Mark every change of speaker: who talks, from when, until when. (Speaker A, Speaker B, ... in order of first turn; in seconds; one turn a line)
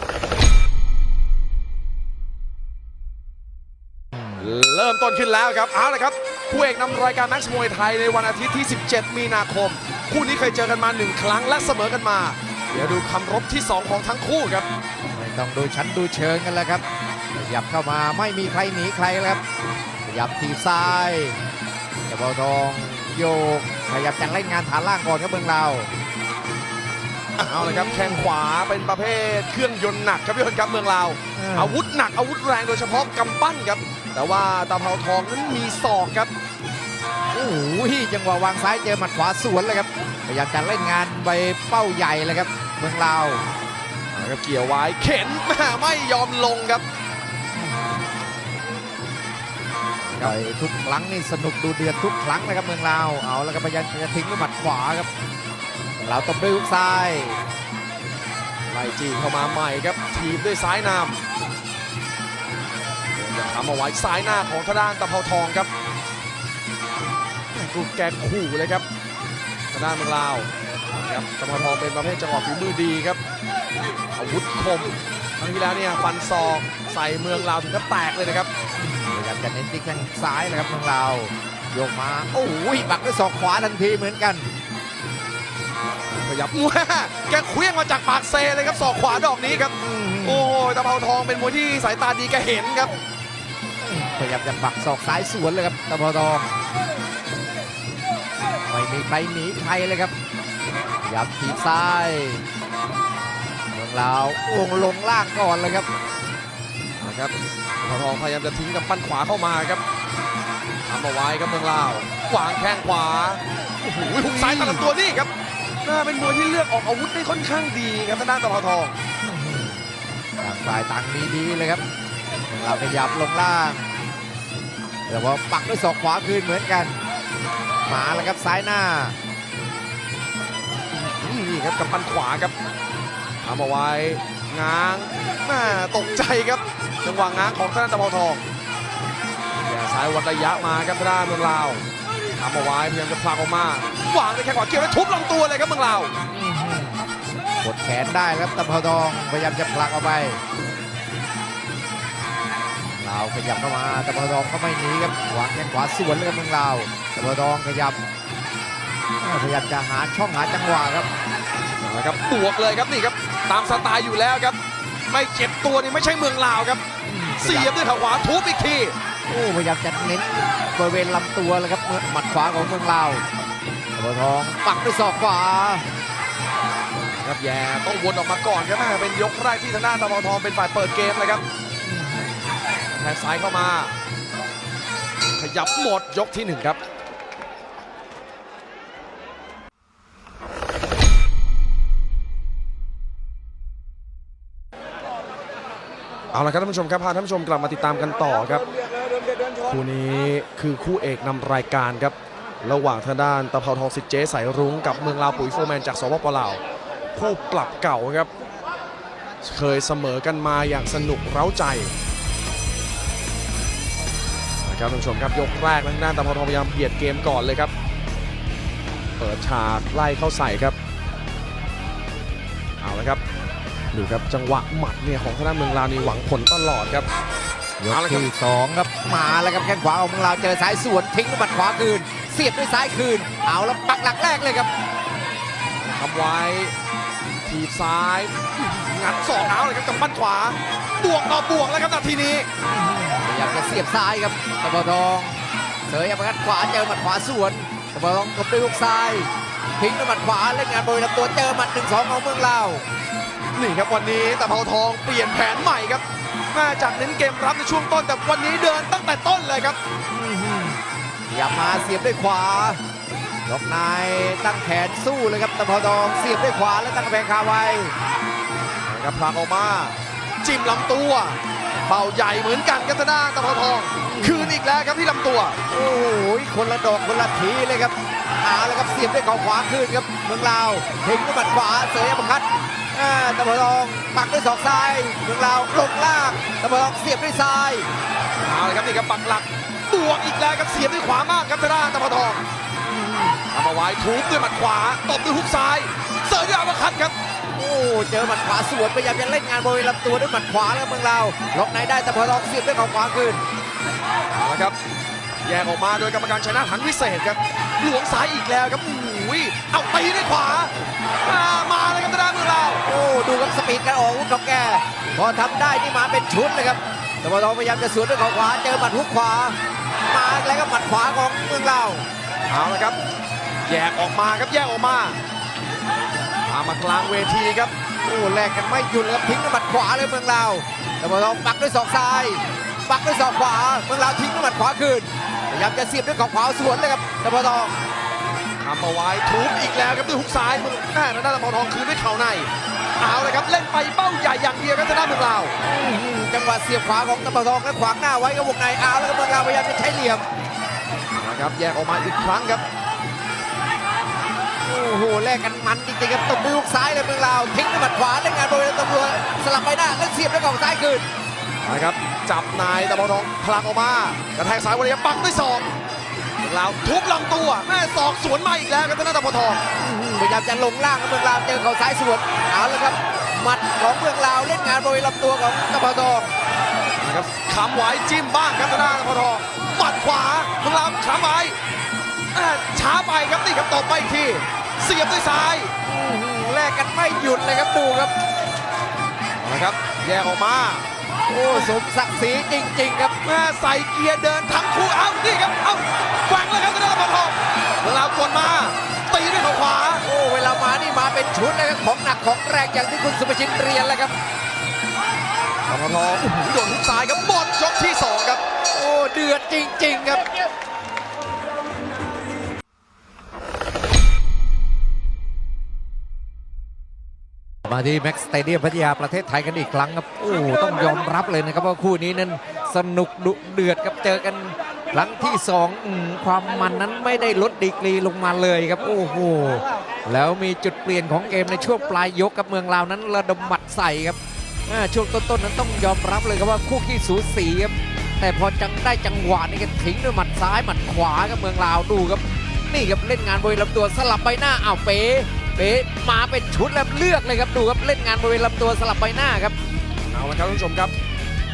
Speaker A: 4.4-14.7
Speaker B: 15.2-19.4
Speaker B: 20.1-21.4
Speaker B: 22.1-25.9
Speaker A: 27.4-36.3
Speaker B: 27.6-28.3
Speaker B: 31.3-31.8
Speaker B: 37.3-43.4
Speaker A: 44.1-46.8
Speaker B: 47.5-48.0
Speaker A: 50.0-50.3
Speaker B: 50.2-55.1
Speaker B: 56.0-57.4
Speaker A: 58.7-61.2
Speaker A: 63.1-65.7
Speaker A: 67.5-68.8
Speaker A: 69.7-73.2
Speaker A: 74.1-78.5
Speaker B: 78.8-84.5
Speaker A: 86.1-92.9
Speaker B: 89.8-90.5
Speaker B: 93.8-96.5
Speaker B: 98.7-100.1
Speaker B: 101.0-102.4
Speaker B: 103.7-105.9
Speaker A: 107.0-109.8
Speaker A: 110.8-115.3
Speaker B: 114.1-114.8
Speaker A: 115.8-118.9
Speaker B: 119.2-119.8
Speaker B: 120.4-121.8
Speaker B: 122.5-123.9
Speaker B: 125.1-127.0
Speaker B: 127.9-129.2
Speaker A: 130.9-132.5
Speaker A: 133.4-138.4
Speaker A: 139.6-146.1
Speaker B: 146.3-147.0
Speaker B: 147.6-150.4
Speaker B: 152.9-158.0
Speaker B: 159.2-161.1
Speaker A: 161.8-164.6
Speaker A: 165.1-166.8
Speaker B: 167.0-167.7
Speaker A: 167.4-168.9
Speaker B: 169.3-173.2
Speaker B: 173.9-175.8
Speaker A: 177.1-181.4
Speaker B: 181.8-182.4
Speaker A: 182.9-183.9
Speaker A: 185.4-186.8
Speaker A: 196.3-198.6
Speaker A: 199.6-206.6
Speaker A: 207.1-208.3
Speaker A: 209.4-211.9
Speaker A: 214.6-217.7
Speaker A: 219.2-220.8
Speaker A: 222.8-223.2
Speaker A: 223.9-227.1
Speaker B: 227.8-234.7
Speaker A: 227.9-228.3
Speaker A: 235.8-236.7
Speaker A: 237.4-242.5
Speaker B: 242.7-252.8
Speaker A: 253.6-259.8
Speaker B: 260.1-262.8
Speaker B: 263.4-267.9
Speaker A: 268.8-275.6
Speaker B: 274.1-274.6
Speaker B: 275.7-287.9
Speaker A: 288.4-292.4
Speaker B: 292.9-293.4
Speaker A: 293.5-297.1
Speaker B: 297.5-303.4
Speaker A: 304.3-304.8
Speaker A: 305.4-310.7
Speaker A: 311.2-312.8
Speaker B: 312.8-322.1
Speaker A: 322.5-323.0
Speaker A: 323.6-325.2
Speaker A: 326.4-327.7
Speaker B: 328.0-337.7
Speaker A: 338.6-345.5
Speaker B: 345.6-350.2
Speaker A: 351.1-352.6
Speaker B: 354.6-361.1
Speaker A: 361.6-365.7
Speaker A: 366.4-369.6
Speaker B: 369.7-376.3
Speaker A: 377.0-381.6
Speaker A: 382.3-385.7
Speaker B: 385.9-388.1
Speaker A: 389.4-390.9
Speaker B: 391.3-393.1
Speaker A: 393.2-400.0
Speaker B: 400.0-404.1
Speaker A: 405.7-408.4
Speaker B: 408.7-410.3
Speaker B: 417.6-449.5
Speaker A: 450.1-450.9